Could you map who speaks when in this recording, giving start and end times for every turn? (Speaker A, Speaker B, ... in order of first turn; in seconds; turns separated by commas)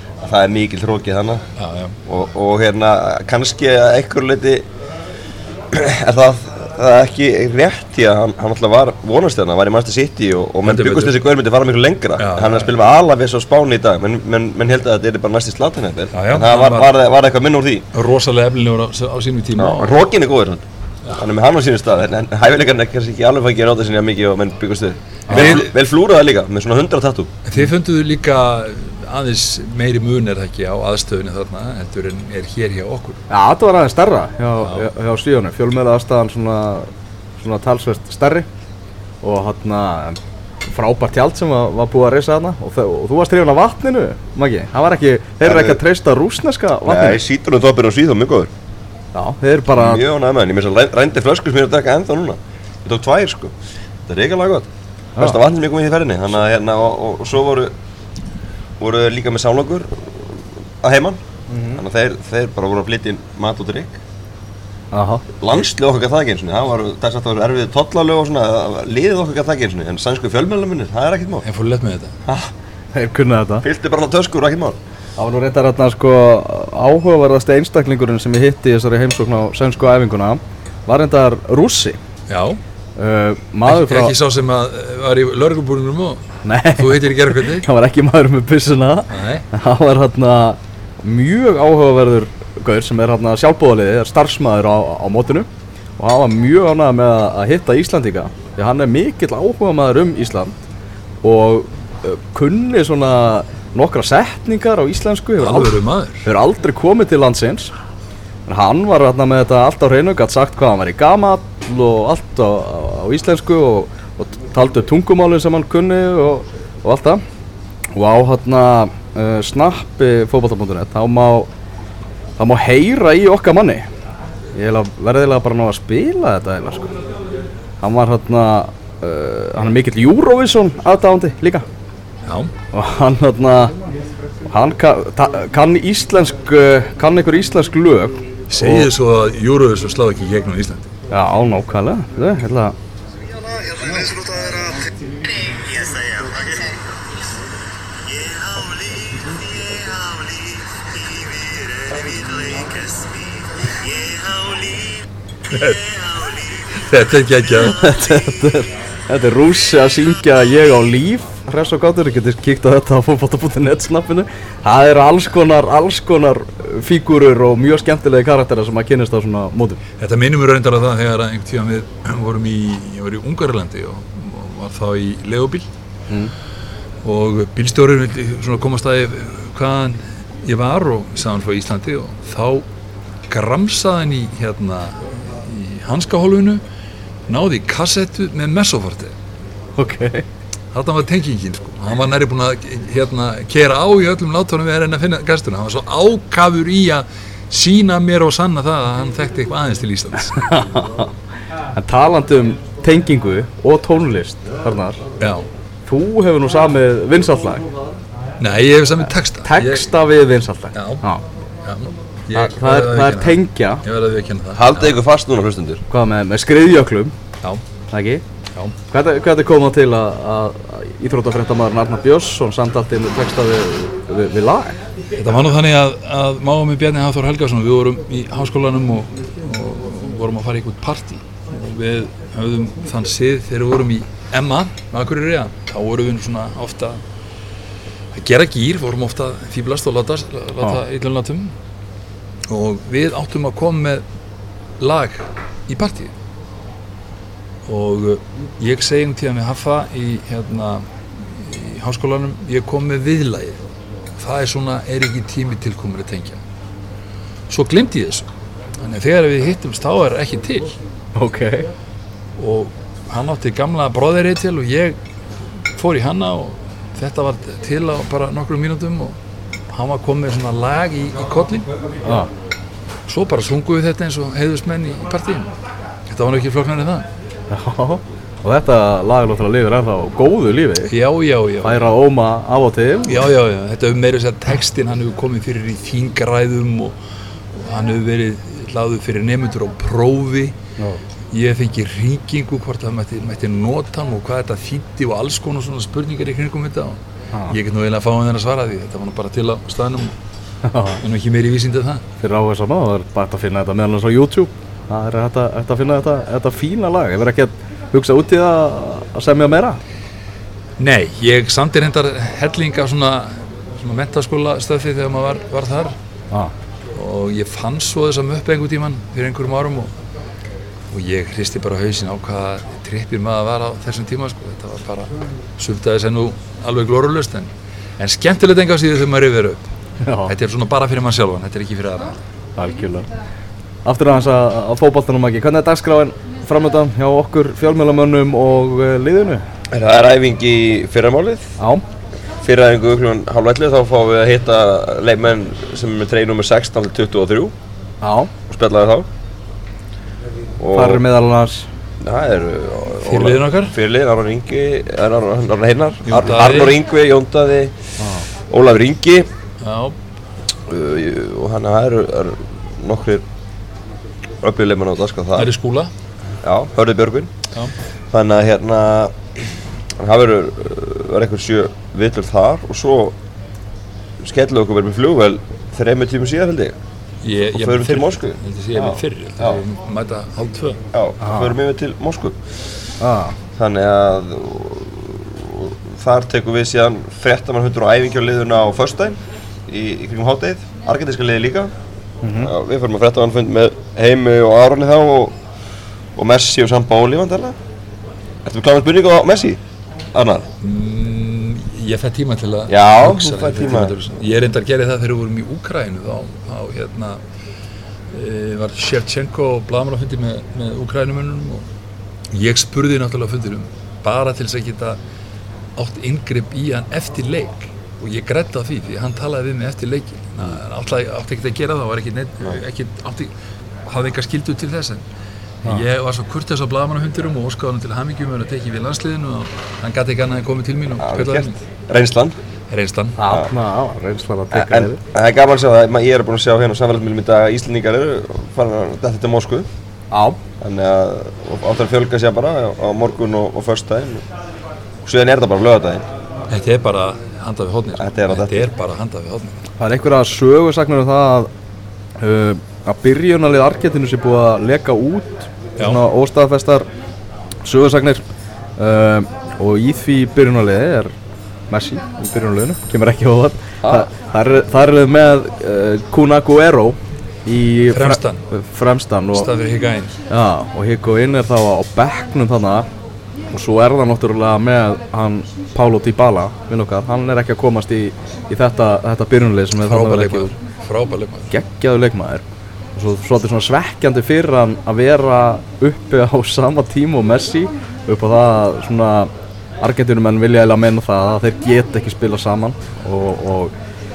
Speaker A: 0.2-1.4, Speaker B: 1.6-1.9, Speaker A: 2.1-4.6, Speaker A: 5.7-17.9, Speaker B: 10.6-11.2, Speaker B: 12.2-12.7, Speaker B: 16.1-16.9, Speaker B: 17.9-20.0, Speaker A: 19.6-27.4, Speaker B: 25.3-25.7, Speaker C: 25.3-25.6, Speaker B: 27.4-33.2, Speaker C: 33.3-38.5, Speaker B: 34.6-34.9, Speaker C: 39.2-47.2, Speaker A: 45.4-45.8, Speaker A: 46.8-48.5, Speaker C: 49.1-50.0, Speaker A: 49.7-53.5, Speaker A: 54.1-54.7, Speaker A: 55.2-57.7, Speaker A: 58.8-61.2, Speaker C: 61.5-61.8, Speaker A: 61.8-64.0, Speaker C: 64.9-65.2, Speaker A: 65.4-71.4, Speaker B: 71.4-72.1, Speaker A: 72.2-72.5, Speaker C: 72.9-73.6, Speaker A: 73.6-74.8, Speaker C: 75.2-82.0, Speaker B: 82.3-82.6, Speaker C: 83.0-84.1, Speaker B: 83.6-87.7, Speaker C: 86.4-95.5, Speaker B: 89.1-89.4, Speaker C: 96.0-100.6, Speaker C: 101.2-107.7, Speaker B: 105.4-106.3, Speaker C: 108.5-117.2, Speaker C: 117.9-121.5, Speaker C: 122.4-123.9, Speaker C: 124.5-126.9, Speaker C: 127.8-131.7, Speaker B: 132.2-132.5, Speaker C: 132.7-133.8, Speaker C: 134.4-138.9, Speaker B: 138.5-140.9, Speaker C: 141.1-142.8, Speaker A: 143.8-144.7, Speaker B: 155.5-156.0, Speaker B: 156.7-157.8, Speaker C: 157.6-169.8, Speaker B: 170.0-175.7, Speaker B: 177.0-182.7, Speaker B: 183.3-186.6, Speaker B: 187.3-189.1, Speaker C: 189.8-190.2, Speaker B: 190.7-200.5, Speaker C: 200.3-201.1, Speaker C: 201.8-205.0, Speaker B: 205.2-205.4, Speaker C: 205.8-207.6, Speaker B: 208.4-209.9, Speaker C: 209.4-211.2, Speaker B: 210.7-211.0, Speaker B: 211.6-214.9, Speaker C: 212.3-213.8, Speaker A: 214.5-215.8, Speaker C: 215.9-217.1, Speaker C: 217.9-218.2, Speaker C: 218.9-224.8, Speaker B: 225.2-237.0, Speaker B: 238.1-241.6, Speaker B: 242.5-244.0, Speaker B: 244.8-246.1, Speaker B: 247.6-253.6, Speaker B: 254.2-256.4, Speaker B: 257.5-258.3, Speaker B: 258.8-260.8, Speaker C: 261.1-261.7, Speaker B: 262.4-265.0, Speaker B: 265.7-269.2, Speaker B: 269.7-271.7, Speaker B: 273.1-275.5, Speaker B: 276.1-277.1, Speaker C: 277.5-280.9, Speaker B: 280.9-281.9, Speaker C: 281.6-283.2, Speaker B: 283.0-287.0, Speaker B: 287.5-290.6, Speaker B: 291.3-300.1, Speaker C: 300.6-301.0, Speaker B: 301.0-302.0, Speaker C: 302.2-309.8, Speaker B: 310.8-316.0, Speaker B: 316.9-319.9, Speaker B: 320.9-329.7, Speaker C: 330.0-330.3, Speaker B: 330.2-332.2, Speaker C: 332.6-333.1, Speaker C: 333.8-339.4, Speaker A: 339.7-341.6, Speaker A: 342.4-347.5, Speaker C: 348.0-348.3, Speaker A: 348.5-349.1, Speaker A: 350.6-351.0, Speaker C: 350.7-351.7, Speaker A: 352.0-357.7, Speaker B: 353.1-353.7, Speaker B: 356.1-356.8, Speaker C: 358.0-358.2, Speaker A: 358.5-359.3, Speaker B: 359.6-360.0, Speaker A: 360.7-363.2, Speaker A: 364.4-365.5, Speaker B: 365.3-365.9, Speaker A: 366.4-367.3, Speaker A: 368.1-369.5, Speaker A: 370.0-373.1, Speaker A: 374.2-376.8, Speaker B: 377.2-380.8, Speaker A: 377.5-379.6, Speaker A: 380.9-382.4, Speaker C: 381.2-381.6, Speaker C: 383.0-383.4, Speaker A: 383.6-391.7, Speaker C: 392.2-392.5, Speaker A: 392.4-395.3, Speaker A: 396.1-397.6, Speaker A: 398.4-399.6, Speaker A: 400.1-400.5, Speaker B: 400.6-407.2, Speaker A: 402.7-403.9, Speaker B: 408.1-411.7, Speaker B: 412.3-415.0, Speaker B: 415.8-423.3, Speaker B: 423.9-425.0, Speaker B: 425.6-431.6, Speaker A: 431.0-432.4, Speaker B: 432.7-433.2, Speaker C: 433.2-435.0, Speaker A: 434.5-439.6, Speaker C: 440.1-440.4, Speaker A: 440.6-444.2, Speaker A: 445.0-446.1, Speaker B: 446.5-449.6, Speaker A: 448.0-448.5, Speaker C: 449.8-451.5, Speaker C: 452.2-456.9, Speaker C: 457.6-458.2, Speaker C: 458.8-461.1, Speaker C: 461.7-469.5, Speaker B: 467.9-468.4, Speaker B: 469.3-470.1, Speaker C: 470.3-472.9, Speaker C: 473.5-480.5, Speaker B: 479.8-481.5, Speaker C: 481.5-482.4, Speaker C: 482.9-493.7